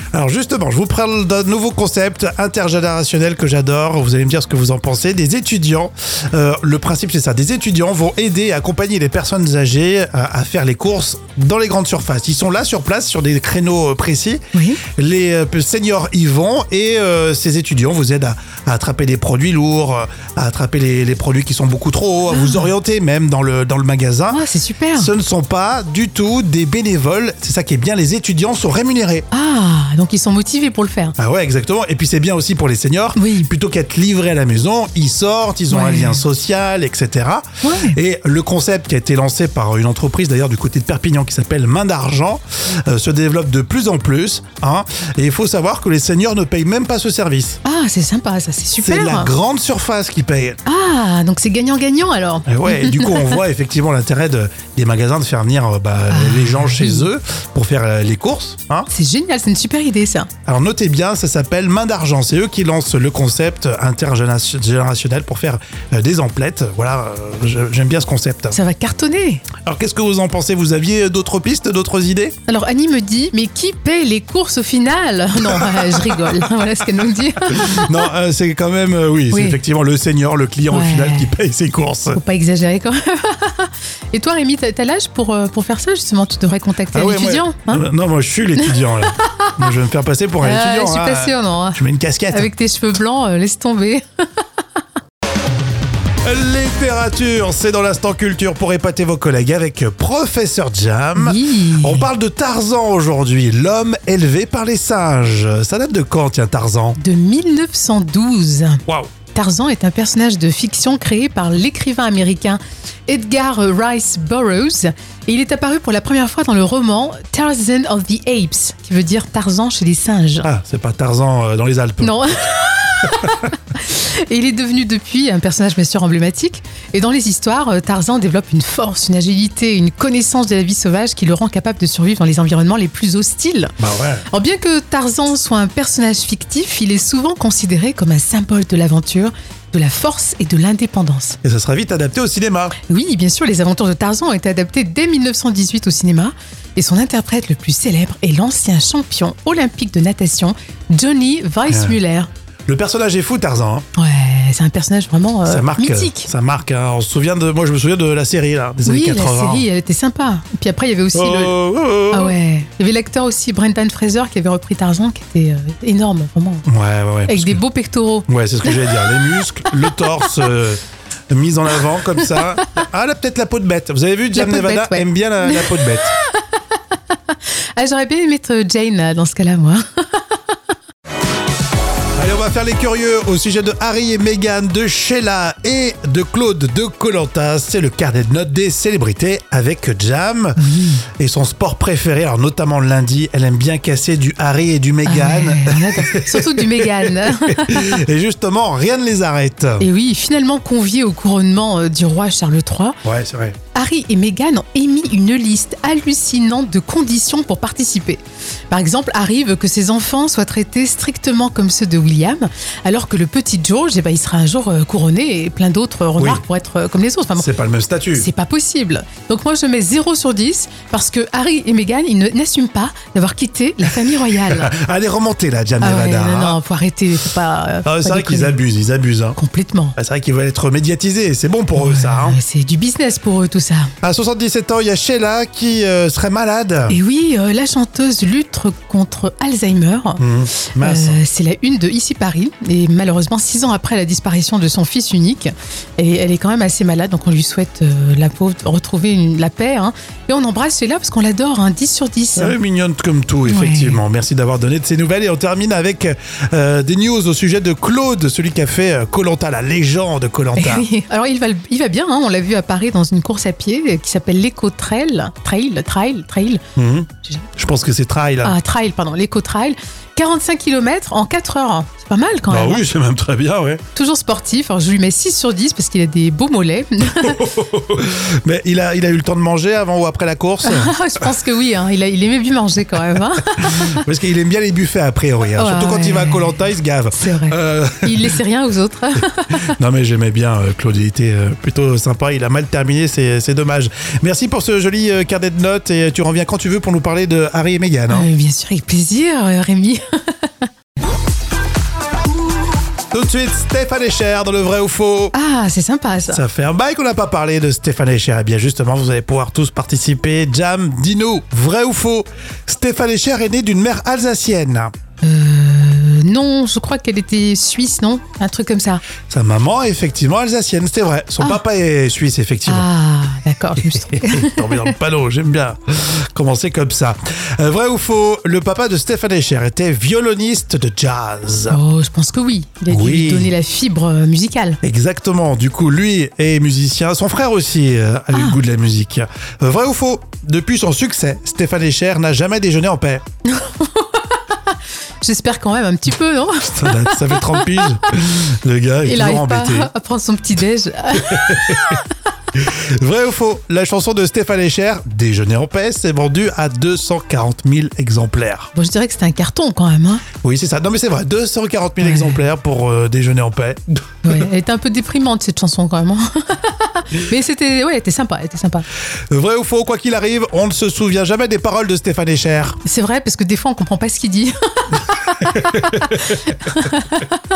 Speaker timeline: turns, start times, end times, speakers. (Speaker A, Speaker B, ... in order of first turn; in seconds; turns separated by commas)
Speaker A: 0.1-14.4, Speaker B: 14.5-14.8, Speaker A: 14.9-24.4, Speaker B: 22.3-22.7, Speaker B: 24.3-25.1, Speaker A: 24.9-29.2, Speaker B: 29.3-31.1, Speaker A: 31.2-47.6, Speaker B: 33.1-33.5, Speaker B: 35.7-36.2, Speaker B: 37.6-38.0, Speaker B: 47.6-49.3, Speaker A: 48.8-50.6, Speaker B: 50.6-53.4, Speaker A: 52.5-58.9, Speaker B: 56.1-57.1, Speaker B: 58.9-60.3, Speaker A: 60.5-68.6, Speaker B: 68.5-69.5, Speaker A: 69.6-72.3, Speaker B: 72.5-77.9, Speaker A: 75.6-76.2, Speaker A: 77.5-82.2, Speaker B: 79.3-79.6, Speaker B: 80.7-81.3, Speaker B: 82.1-87.9, Speaker A: 86.9-92.5, Speaker B: 88.6-89.5, Speaker B: 90.4-94.0, Speaker A: 96.2-107.0, Speaker B: 101.1-102.1, Speaker B: 107.0-120.5, Speaker A: 120.4-122.3, Speaker B: 122.0-133.7, Speaker A: 133.8-134.2, Speaker B: 134.3-141.4, Speaker A: 141.4-142.7, Speaker B: 142.9-152.3, Speaker A: 151.7-151.9, Speaker A: 152.7-153.8, Speaker B: 153.9-156.3, Speaker A: 155.4-159.7, Speaker B: 158.8-161.6, Speaker A: 161.1-162.3, Speaker B: 162.1-166.7, Speaker A: 166.7-167.6, Speaker B: 167.2-169.1, Speaker A: 168.3-176.1, Speaker B: 174.3-176.2, Speaker B: 177.8-180.2, Speaker A: 182.2-190.6, Speaker B: 190.6-191.0, Speaker A: 191.1-199.8, Speaker B: 195.0-198.0, Speaker B: 199.8-203.0, Speaker A: 203.0-203.6, Speaker B: 203.7-217.5, Speaker A: 216.2-216.4, Speaker A: 217.3-218.3, Speaker B: 218.1-224.7, Speaker A: 224.5-226.6, Speaker B: 225.8-228.6, Speaker A: 227.8-229.4, Speaker B: 229.3-229.9, Speaker A: 229.9-232.4, Speaker B: 231.7-233.9, Speaker A: 234.0-236.9, Speaker B: 236.9-252.6, Speaker A: 240.2-241.2, Speaker A: 252.4-260.8, Speaker B: 253.4-254.0, Speaker B: 260.5-266.6, Speaker A: 266.8-268.5, Speaker B: 268.4-272.8, Speaker A: 272.5-273.8, Speaker B: 273.9-277.5, Speaker A: 277.2-280.9, Speaker B: 280.6-284.0, Speaker A: 283.6-288.4, Speaker B: 285.5-286.6, Speaker B: 287.1-289.6, Speaker A: 289.7-298.3, Speaker B: 298.1-300.7, Speaker A: 303.1-305.3, Speaker B: 305.3-306.4, Speaker A: 306.3-314.9, Speaker B: 315.2-319.0, Speaker A: 319.3-322.9, Speaker B: 322.6-324.9, Speaker A: 323.8-331.8, Speaker B: 331.7-334.8, Speaker A: 332.9-333.5, Speaker A: 334.8-343.2, Speaker B: 338.3-338.6, Speaker B: 343.5-344.6, Speaker B: 345.2-347.9, Speaker A: 346.7-349.9, Speaker B: 349.0-352.0, Speaker A: 351.2-352.0, Speaker A: 352.5-358.7, Speaker B: 358.7-360.2, Speaker A: 360.4-364.4, Speaker B: 362.0-362.4, Speaker B: 364.2-368.8, Speaker A: 369.3-372.8, Speaker B: 372.8-377.4, Speaker A: 375.4-376.8